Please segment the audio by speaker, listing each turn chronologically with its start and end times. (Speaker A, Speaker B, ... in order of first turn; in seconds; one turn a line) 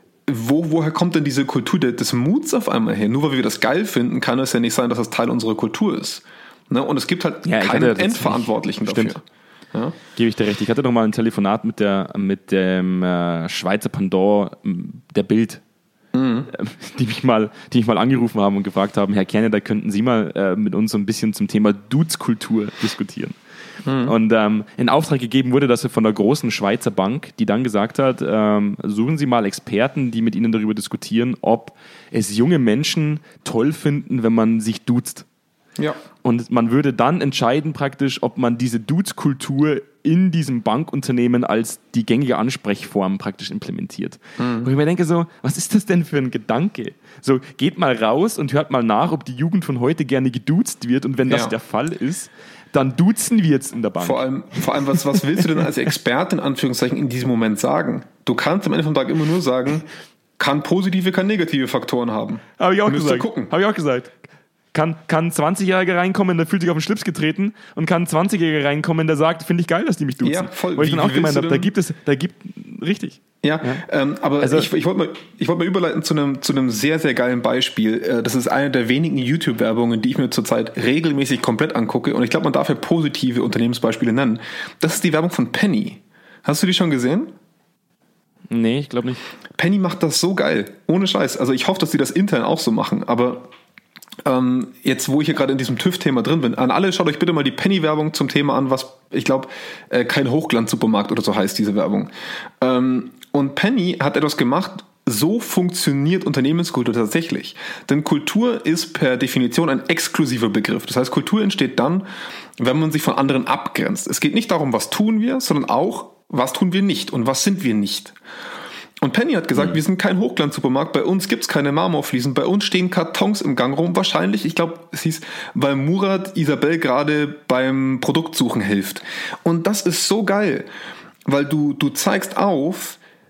Speaker A: 0.3-10.0
Speaker B: 7.5-9.2
Speaker B: 10.2-15.6
Speaker A: 16.1-16.5
Speaker B: 16.5-23.4
Speaker A: 23.9-24.1
Speaker B: 24.0-35.3
Speaker B: 36.2-54.2
Speaker A: 44.4-44.7
Speaker A: 51.3-51.5
Speaker A: 54.0-59.9
Speaker A: 60.4-63.5
Speaker B: 62.6-64.2
Speaker B: 64.7-73.8
Speaker A: 70.2-71.7
Speaker A: 73.4-87.3
Speaker B: 74.4-74.7
Speaker B: 88.5-89.2
Speaker A: 89.5-93.5
Speaker A: 94.2-102.1
Speaker A: 102.6-112.1
Speaker A: 112.6-118.2
Speaker A: 119.0-130.7
Speaker A: 131.3-133.0